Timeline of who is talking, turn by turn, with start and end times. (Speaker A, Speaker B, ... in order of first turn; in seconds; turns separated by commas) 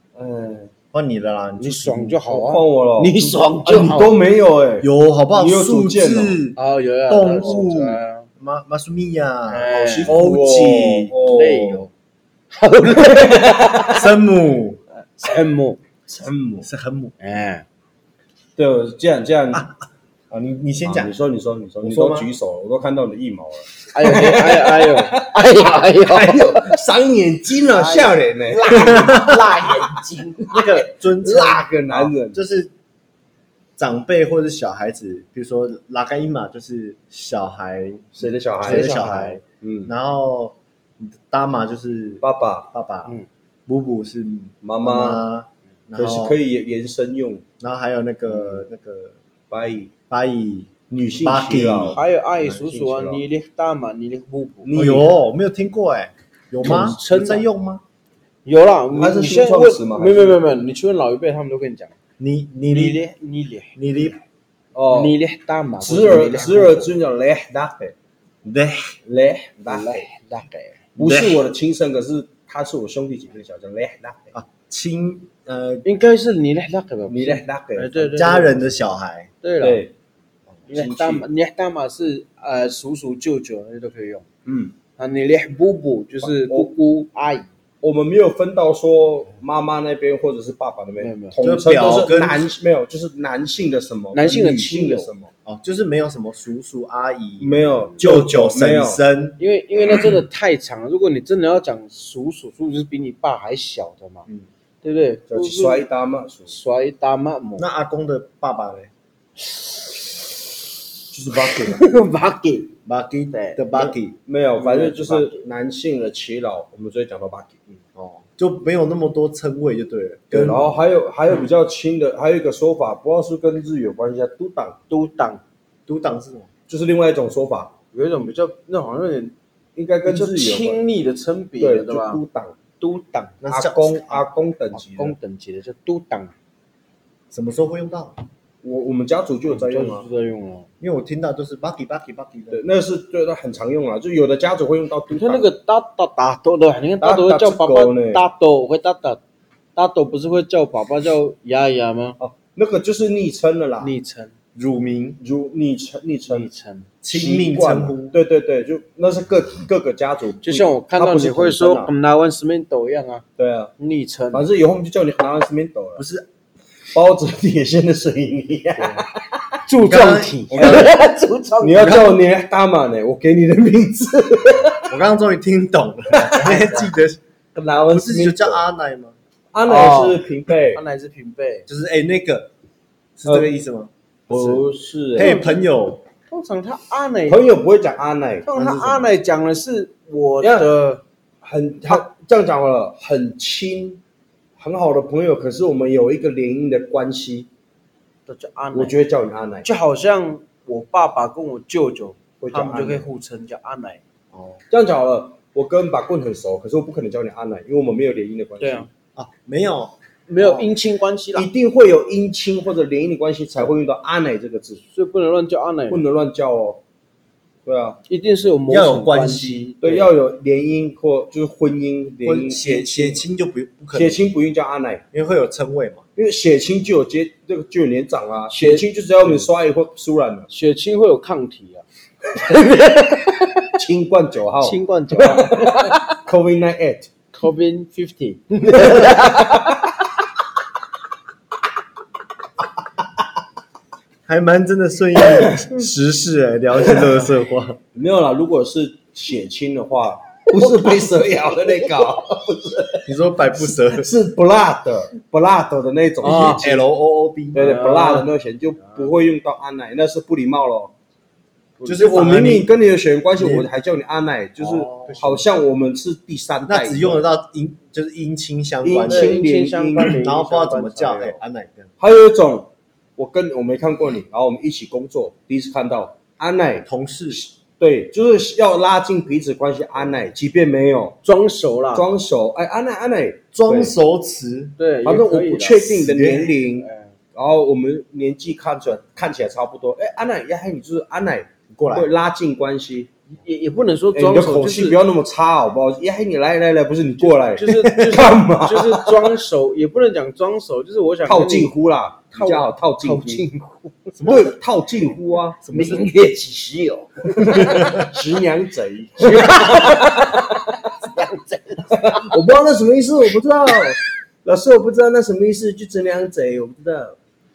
Speaker A: 0.1-0.7, Speaker B: 0.9-2.2, Speaker C: 1.6-4.2, Speaker A: 2.3-6.4, Speaker B: 4.8-6.6, Speaker C: 6.5-8.3, Speaker B: 7.1-11.8, Speaker C: 9.5-10.1, Speaker A: 9.7-11.7, Speaker C: 11.2-11.9, Speaker C: 12.5-14.1, Speaker A: 12.9-14.0, Speaker B: 13.9-14.8, Speaker C: 15.2-15.8, Speaker A: 16.1-16.7, Speaker B: 16.6-17.1, Speaker C: 17.2-17.6, Speaker A: 18.6-19.7, Speaker B: 20.3-21.1, Speaker A: 20.8-29.8, Speaker B: 21.8-22.3, Speaker C: 23.9-26.8, Speaker C: 27.6-30.6, Speaker B: 28.8-29.4, Speaker B: 30.5-32.7, Speaker A: 30.5-32.4, Speaker B: 33.8-43.1, Speaker A: 38.2-39.9, Speaker C: 38.6-39.4, Speaker A: 42.2-42.7, Speaker B: 43.7-46.4, Speaker A: 44.6-45.2, Speaker A: 46.0-47.4, Speaker B: 47.6-49.1, Speaker A: 48.3-48.6, Speaker A: 49.5-49.9, Speaker B: 50.1-50.7, Speaker A: 50.9-53.2, Speaker B: 51.2-52.0, Speaker C: 51.9-54.7, Speaker A: 54.6-55.1, Speaker B: 54.7-57.8, Speaker C: 56.6-57.4, Speaker C: 58.4-61.9, Speaker A: 58.9-60.4, Speaker B: 62.2-63.0, Speaker C: 62.7-63.7, Speaker B: 63.8-64.2, Speaker A: 64.7-65.2, Speaker C: 64.9-66.9, Speaker A: 65.8-67.9, Speaker B: 68.4-68.9, Speaker A: 69.0-70.1, Speaker C: 69.7-70.8, Speaker A: 71.0-74.3, Speaker B: 71.0-71.4, Speaker B: 74.3-75.9, Speaker C: 75.8-78.6, Speaker A: 77.1-78.2, Speaker B: 78.1-79.3, Speaker C: 79.4-79.8, Speaker A: 79.6-79.9, Speaker C: 80.7-84.2, Speaker A: 80.7-81.2, Speaker A: 84.5-84.8, Speaker C: 85.0-87.5, Speaker A: 86.2-86.7, Speaker A: 87.8-95.3, Speaker C: 91.0-91.4, Speaker B: 91.4-92.5, Speaker C: 94.1-95.1, Speaker B: 95.5-99.4, Speaker A: 97.4-99.0, Speaker C: 99.4-104.3, Speaker C: 104.8-105.9, Speaker A: 105.3-106.5, Speaker C: 106.5-107.7, Speaker B: 107.6-108.9, Speaker A: 111.1-111.8, Speaker C: 111.4-112.7, Speaker B: 112.8-114.2, Speaker C: 113.3-113.6, Speaker A: 113.7-117.7, Speaker C: 114.6-115.3, Speaker B: 118.0-120.7, Speaker A: 120.3-124.8, Speaker C: 124.9-125.4, Speaker B: 125.9-126.5, Speaker A: 126.7-127.7, Speaker C: 127.9-129.3, Speaker A: 129.8-130.8, Speaker C: 130.1-132.2, Speaker A: 131.6-132.6, Speaker C: 132.8-133.4, Speaker B: 133.4-134.3, Speaker A: 133.5-135.2, Speaker C: 134.7-136.3, Speaker B: 137.3-138.1, Speaker A: 138.6-140.1, Speaker C: 139.5-140.7, Speaker B: 140.8-142.7, Speaker A: 142.5-145.5, Speaker C: 145.1-149.2, Speaker A: 147.0-148.2, Speaker C: 149.8-152.2, Speaker A: 152.2-153.9, Speaker C: 153.8-154.3, Speaker B: 154.6-155.2, Speaker A: 155.2-156.5, Speaker C: 156.3-156.9, Speaker B: 157.0-158.2, Speaker A: 157.1-161.9, Speaker C: 160.4-163.2, Speaker A: 163.4-163.7, Speaker C: 163.8-164.4, Speaker A: 164.3-166.0, Speaker B: 166.0-166.3, Speaker A: 166.9-169.6, Speaker C: 169.6-172.2, Speaker B: 169.8-170.9, Speaker A: 170.5-170.9, Speaker A: 171.6-174.9, Speaker B: 174.9-177.2, Speaker C: 176.3-176.9, Speaker A: 177.5-178.6, Speaker B: 177.9-179.1, Speaker A: 179.5-180.8, Speaker C: 179.6-181.7, Speaker B: 181.7-182.5, Speaker B: 183.2-184.7, Speaker A: 184.3-185.4, Speaker C: 185.2-185.6, Speaker B: 185.2-186.0, Speaker C: 186.3-187.5, Speaker A: 187.3-189.0, Speaker C: 188.4-191.0, Speaker A: 190.4-190.7, Speaker A: 191.4-194.0, Speaker A: 194.6-197.5, Speaker C: 198.3-198.9, Speaker A: 198.7-199.7, Speaker C: 199.6-204.0, Speaker A: 202.4-203.1, Speaker B: 204.3-204.6, Speaker A: 204.7-208.9, Speaker C: 208.6-208.9, Speaker B: 209.2-210.0, Speaker C: 210.3-211.5, Speaker A: 210.3-210.7, Speaker A: 211.3-214.8, Speaker C: 214.9-216.0, Speaker A: 215.9-216.8, Speaker A: 217.6-218.0, Speaker C: 218.1-220.1, Speaker B: 218.7-219.6, Speaker A: 219.8-223.2, Speaker B: 222.2-224.3, Speaker A: 223.9-225.0, Speaker B: 225.1-226.0, Speaker A: 226.2-230.5, Speaker C: 228.6-229.4, Speaker C: 230.5-231.8, Speaker C: 232.3-233.7, Speaker A: 233.8-237.1, Speaker C: 234.6-236.0, Speaker C: 237.3-239.9, Speaker A: 238.7-239.8, Speaker B: 244.3-247.8, Speaker A: 247.9-253.1, Speaker B: 253.1-254.1, Speaker A: 253.6-256.8, Speaker B: 256.2-257.8, Speaker C: 256.3-256.6, Speaker C: 257.5-258.3, Speaker A: 257.5-260.9, Speaker C: 261.8-262.2, Speaker B: 261.8-262.7, Speaker A: 262.0-267.3, Speaker B: 263.4-263.7, Speaker B: 264.6-265.5, Speaker B: 266.6-269.4, Speaker A: 268.8-270.2, Speaker C: 268.9-271.4, Speaker B: 270.0-271.9, Speaker A: 272.0-281.2, Speaker B: 276.9-277.4, Speaker C: 281.2-282.1, Speaker A: 281.9-283.9, Speaker B: 283.5-284.8, Speaker C: 284.8-286.0, Speaker A: 285.0-293.1, Speaker B: 285.9-286.6, Speaker C: 286.6-287.1, Speaker B: 291.7-292.1, Speaker C: 293.4-295.0, Speaker A: 294.1-299.3, Speaker C: 297.2-301.7, Speaker B: 297.7-298.1, Speaker A: 301.2-303.4, Speaker C: 302.3-304.1, Speaker B: 304.2-304.6, Speaker A: 304.2-305.6, Speaker B: 305.6-306.1, Speaker C: 305.7-308.0, Speaker A: 307.3-310.6, Speaker B: 307.6-308.1, Speaker C: 309.2-312.3, Speaker A: 311.9-317.2